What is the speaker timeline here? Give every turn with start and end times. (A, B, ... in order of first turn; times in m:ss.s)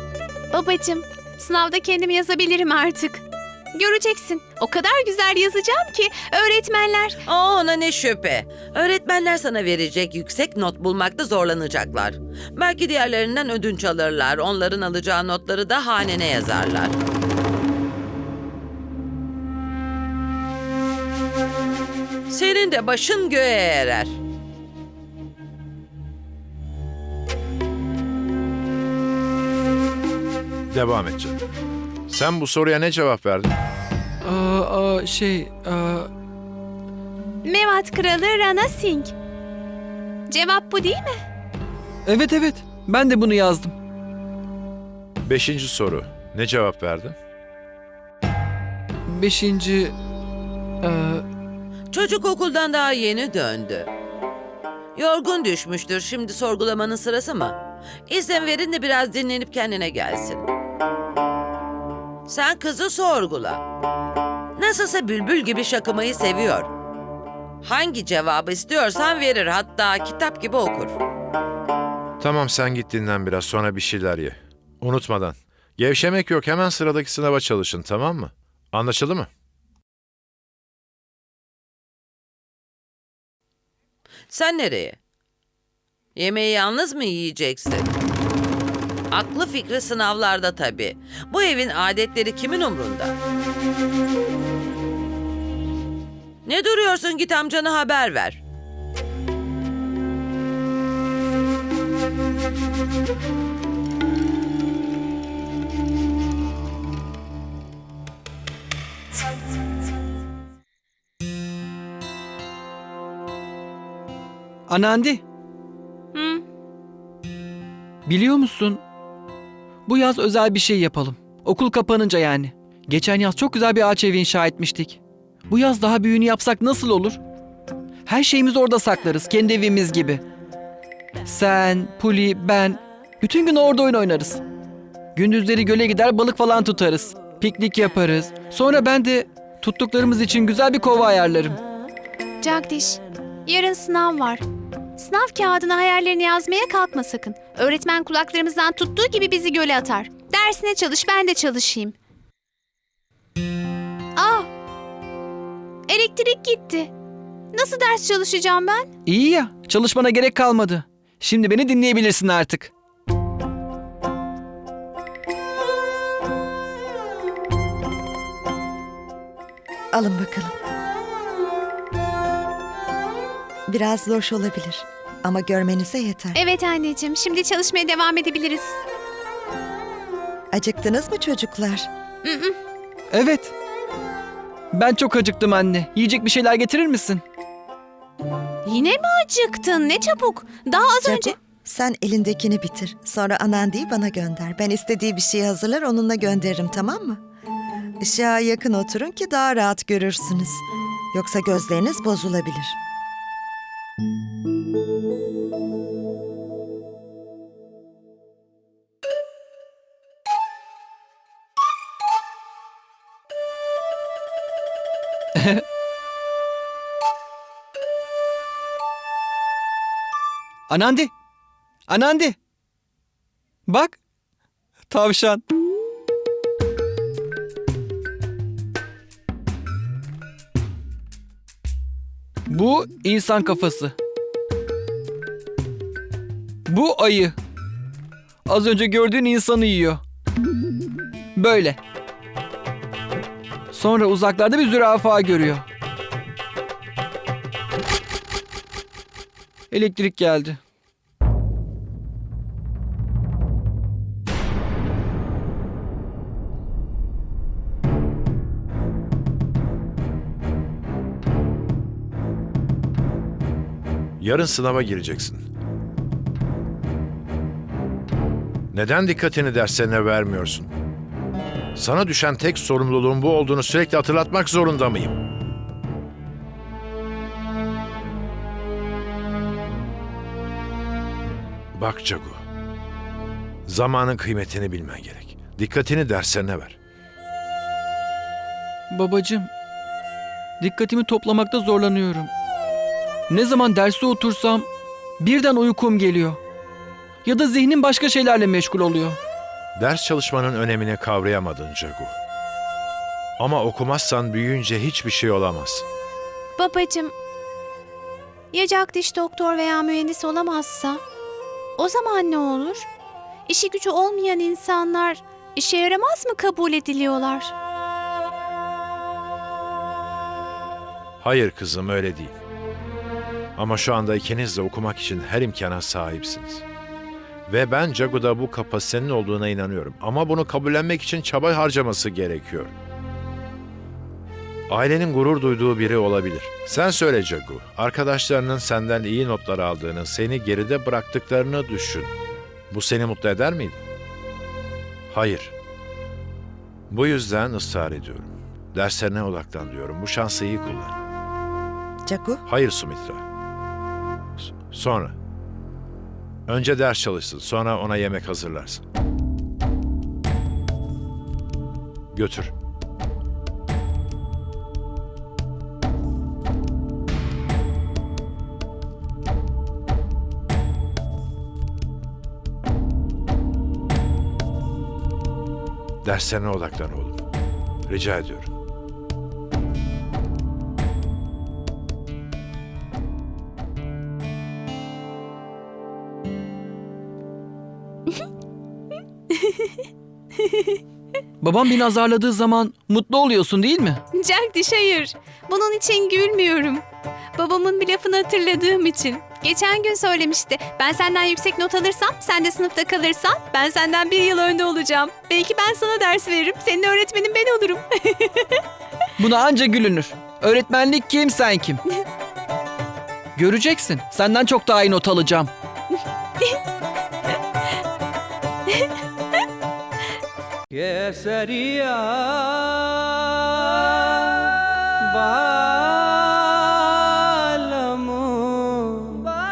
0:00.5-0:07.2 A
0:07.3-0:17.0 B
0:22.3-0:24.2 B
0:30.7-0:31.4 C
0:32.1-0:33.5 C
0:34.2-0:36.1 D
0:37.4-0:39.1 A
0:40.3-0:41.2 A
0:42.1-0:43.7 D
0:45.2-0:47.2 C
0:49.1-0:49.9 D
0:50.8-0:51.2 D
0:51.9-0:53.9 B
0:55.0-0:57.6 B
0:58.1-1:00.5 B
1:02.3-1:03.6 B
1:04.6-1:06.7 B
1:07.6-1:11.0 B
1:12.2-1:19.3 C
1:24.3-1:25.0 B
1:26.2-1:27.9 B
1:29.1-1:33.2 B
1:36.5-1:38.4 B
1:54.7-1:55.2 D
1:56.1-1:56.4 A
1:58.1-1:58.8 D
1:59.9-2:05.0 D
2:05.5-2:07.2 D
2:08.1-2:10.2 D
2:11.3-2:14.4 D
2:15.2-2:21.6 D
2:22.4-2:24.4 A
2:25.0-2:32.0 A
2:34.2-2:34.5 A
2:35.9-2:36.9 A
2:37.5-2:38.9 A
2:39.1-2:42.7 D
2:49.9-2:50.6 E
2:53.7-2:56.4 E
2:56.3-2:58.8 A
3:00.5-3:01.9 E
3:02.2-3:02.6 A
3:03.1-3:03.5 D
3:04.7-3:07.2 D
3:08.6-3:11.4 A
3:11.0-3:17.2 E
3:18.0-3:22.8 E
3:35.4-3:35.6 D
3:40.7-3:41.1 D
3:41.9-3:42.4 D
3:43.7-3:44.0 D
3:44.9-3:45.4 D
3:52.5-3:53.9 D
3:56.7-3:57.4 D
3:58.5-4:00.0 D
4:01.4-4:01.8 D
4:03.7-4:05.6 D
4:09.7-4:10.6 D
4:24.2-4:25.5 C
4:28.7-4:30.7 C
4:31.8-4:35.2 C
4:41.8-4:42.4 C
4:43.7-4:46.8 C
4:48.9-4:49.5 D
4:50.6-4:52.3 D
4:53.3-4:54.7 D
4:55.2-4:56.4 D
4:57.2-4:59.2 D
4:59.8-5:02.2 C
5:03.4-5:05.8 C
5:06.6-5:07.1 A
5:08.5-5:11.0 A
5:11.8-5:12.9 A
5:13.5-5:17.5 A
5:21.2-5:22.4 C
5:23.6-5:26.6 C
5:27.5-5:32.7 C
5:34.7-5:42.1 C
5:42.7-5:43.8 C
5:45.1-5:45.5 C
5:46.9-5:51.0 C
5:52.1-5:52.4 E
5:52.5-5:53.2 C
5:54.4-5:55.2 C
5:56.5-5:58.8 C
6:02.1-6:02.5 C
6:16.0-6:17.2 C
6:17.9-6:18.5 C
6:29.3-6:29.8 A
6:30.4-6:30.8 A
6:31.4-6:34.0 D
6:34.1-6:36.8 A
6:37.4-6:48.6 A
6:49.2-6:51.8 D
6:53.4-6:55.5 D
7:00.7-7:03.3 F
7:05.0-7:09.3 F